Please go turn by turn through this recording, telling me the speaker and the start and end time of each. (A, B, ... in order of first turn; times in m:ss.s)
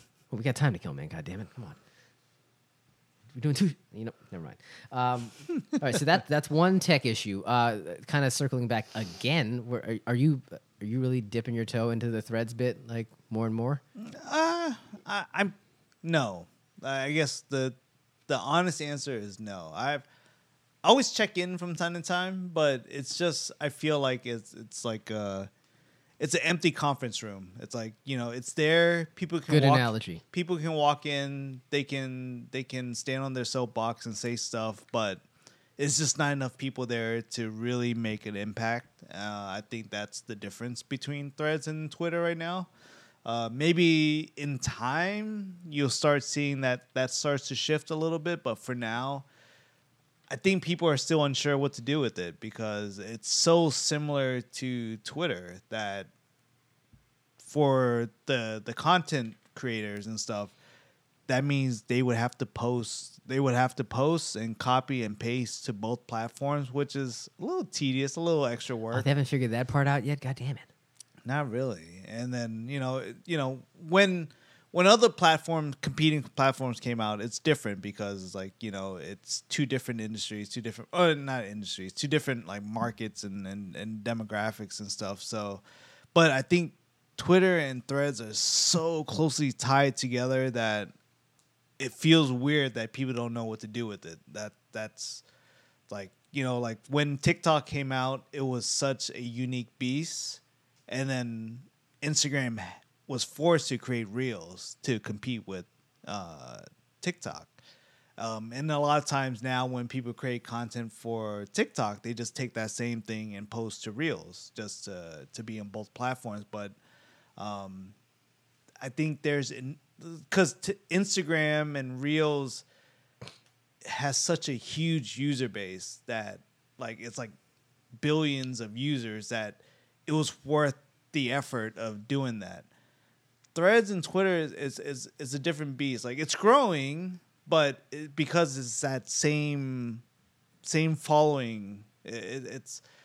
0:00.3-0:01.8 A
0:03.3-0:13.8 A
0:14.0-0:17.8 B
0:18.3-0:20.0 B
0:20.8-0:25.5 B
0:26.2-0:35.2 B
0:29.5-0:30.2 A
0:35.8-0:42.7 B
0:43.2-0:49.2 B
0:50.3-0:56.1 B
0:57.4-1:00.5 B
1:01.3-1:09.1 B
1:08.9-1:10.7 A
1:11.2-1:25.6 B
1:26.1-1:30.9 B
1:31.8-1:35.2 B
1:35.9-1:47.6 B
1:48.2-1:56.8 B
1:57.4-1:57.9 B
1:58.8-2:02.6 B
2:03.8-2:07.3 B
2:08.0-2:12.7 B
2:13.5-2:20.0 B
2:20.6-2:22.8 B